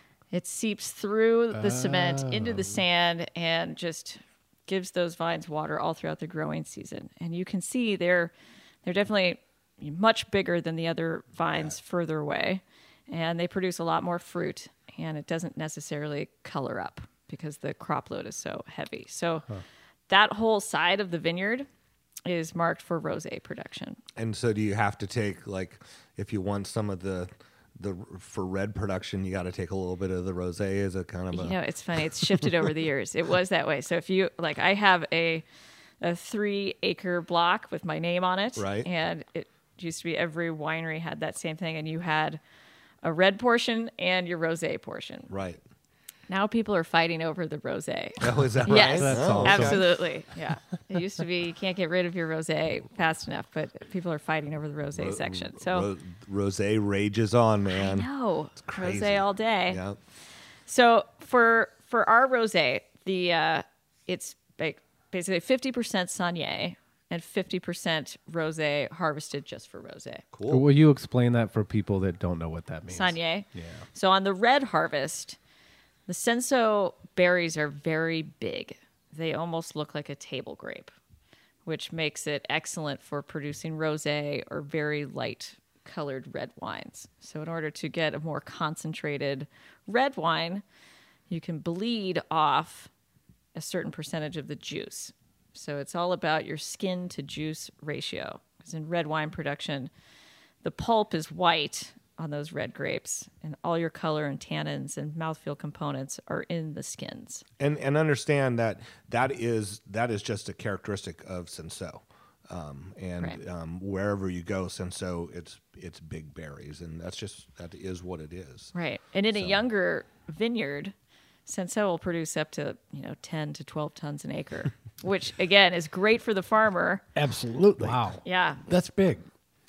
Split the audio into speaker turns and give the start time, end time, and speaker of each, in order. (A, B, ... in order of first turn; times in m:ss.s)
0:00.3-0:08.3 A
0:01.5-0:02.7 B
0:08.8-0:19.5 A
0:20.1-0:21.7 A
0:22.3-0:24.0 A
0:24.2-0:31.6 C
0:31.3-0:35.4 A
0:36.0-0:42.4 A
0:38.6-0:38.9 C
0:43.0-0:45.3 A
0:45.3-0:45.6 C
0:46.3-0:55.9 A
0:48.2-0:49.9 C
0:48.6-0:49.9 B
0:55.0-0:58.1 C
0:57.7-0:59.8 A
0:58.6-1:00.0 C
1:00.7-1:10.2 A
1:10.3-1:10.6 C
1:10.5-1:13.8 B
1:12.9-1:15.4 A
1:16.1-1:20.9 A
1:21.7-1:30.6 A
1:31.3-1:32.9 A
1:33.6-1:39.9 A
1:40.6-1:47.4 A
1:47.6-1:58.7 C
1:58.7-2:00.9 A
2:01.5-2:07.0 A
2:07.2-2:09.2 D
2:07.8-2:08.2 B
2:08.2-2:08.6 A